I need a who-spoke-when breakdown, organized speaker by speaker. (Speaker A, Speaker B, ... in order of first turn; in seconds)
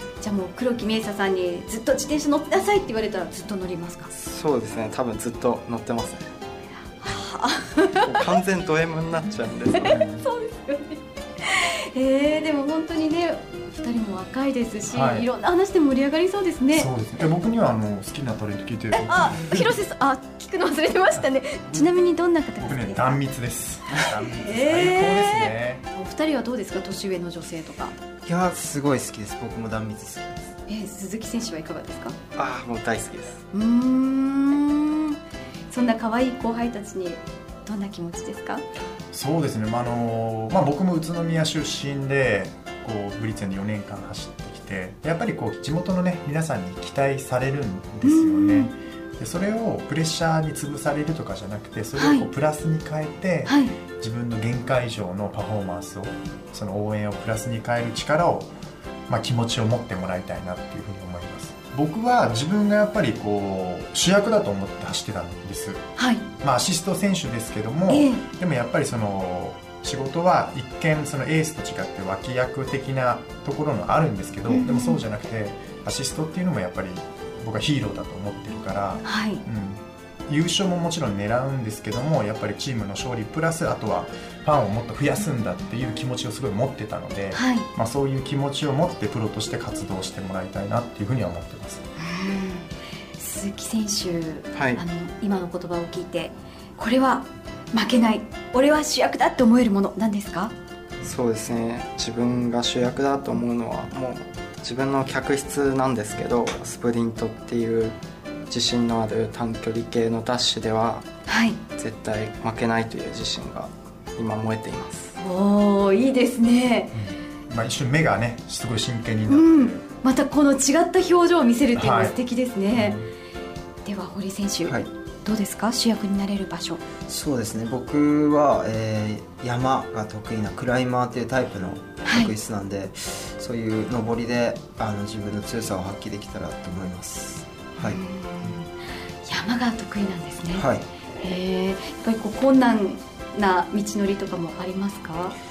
Speaker A: 0.2-4.1, 7.0-8.1, 9.8-16.9, 18.9-23.2, 24.2-27.9, 30.7-32.1, 33.5-35.2, 35.7-38.6, 48.0-48.7, 52.0-52.3, 53.5-53.8, 66.0-66.2, 67.9-68.2, 74.5-75.0, 79.0-79.4, 87.3-87.7, 92.0-100.5, 111.3-111.6, 115.2-116.9, 119.3-123.0, 123.8-126.8, 132.0-132.3, 137.8-138.7, 139.2-140.7, 141.2-145.3
Speaker B: 4.1-6.3, 8.0-10.0, 32.4-33.4, 94.5-94.8, 101.0-108.0, 108.5-111.1, 111.8-115.1
Speaker C: 9.8-10.3, 14.9-15.3, 16.7-19.8, 22.6-25.8, 39.1-58.5, 59.1-65.8, 66.4-91.8, 116.9-119.8, 121.8-122.2, 122.7-123.1
Speaker D: 28.2-30.5, 127.1-138.0, 140.5-140.8